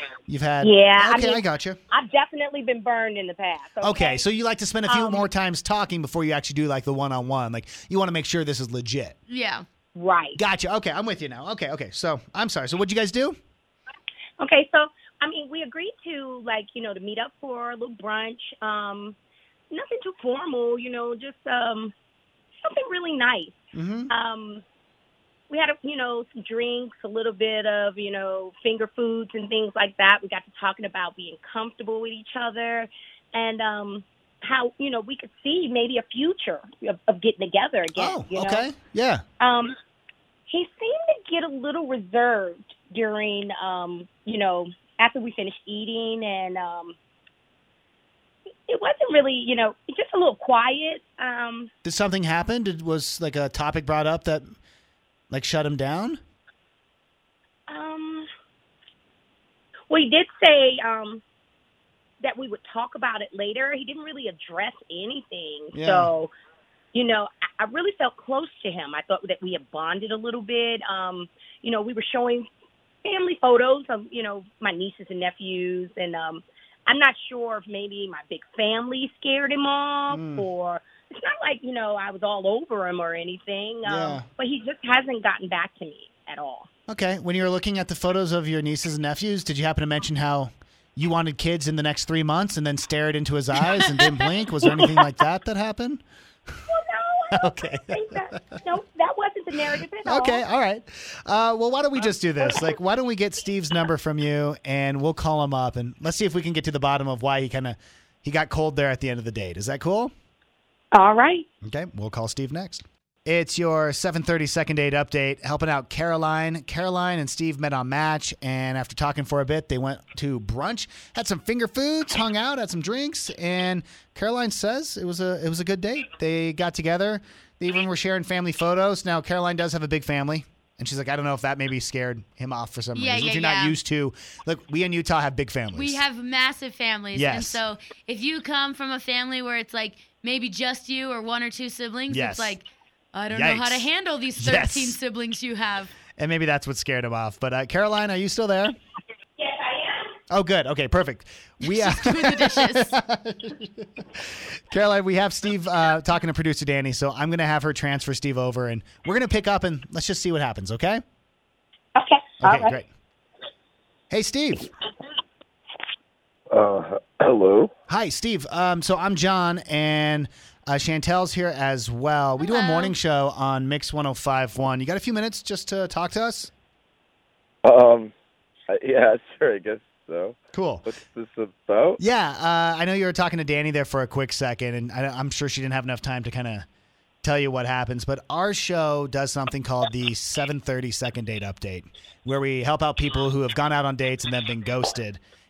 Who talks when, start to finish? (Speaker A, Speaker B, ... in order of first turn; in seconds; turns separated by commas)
Speaker A: 0.3-1.8, Speaker B: 0.6-4.3, Speaker A: 3.8-9.2, Speaker B: 4.8-5.3, Speaker C: 9.3-9.7, Speaker B: 9.9-10.4, Speaker A: 10.4-13.4, Speaker B: 14.4-19.2, Speaker B: 19.7-21.9, Speaker B: 22.6-24.6, Speaker A: 23.8-24.1, Speaker B: 25.5-38.7, Speaker A: 38.0-39.2, Speaker B: 39.4-39.8, Speaker B: 40.5-47.0, Speaker B: 48.7-51.7, Speaker A: 51.8-54.5, Speaker A: 55.3-56.2, Speaker B: 57.7-58.3, Speaker B: 59.9-61.2, Speaker B: 62.2-66.3, Speaker A: 65.8-66.1, Speaker B: 66.9-72.5, Speaker B: 73.0-86.7, Speaker A: 80.1-80.5, Speaker A: 83.9-84.2, Speaker A: 86.9-96.0, Speaker C: 93.7-94.4, Speaker B: 94.6-95.2, Speaker B: 96.7-100.4, Speaker A: 97.4-98.5, Speaker A: 100.1-110.1, Speaker B: 102.4-102.8, Speaker B: 110.9-111.5, Speaker A: 111.6-136.0, Speaker C: 132.9-133.8, Speaker C: 135.7-145.9, Speaker A: 137.1-137.6, Speaker A: 142.1-142.6, Speaker A: 143.3-145.0, Speaker A: 146.2-148.8, Speaker B: 149.4-150.1, Speaker A: 150.3-161.0, Speaker C: 151.6-152.9, Speaker B: 162.0-162.8, Speaker A: 162.4-162.9, Speaker A: 164.1-164.7, Speaker D: 166.5-167.7, Speaker A: 167.9-176.5, Speaker C: 172.4-172.9, Speaker D: 177.6-178.1, Speaker D: 178.7-182.0, Speaker A: 180.5-180.9, Speaker A: 182.0-186.7, Speaker A: 187.2-195.2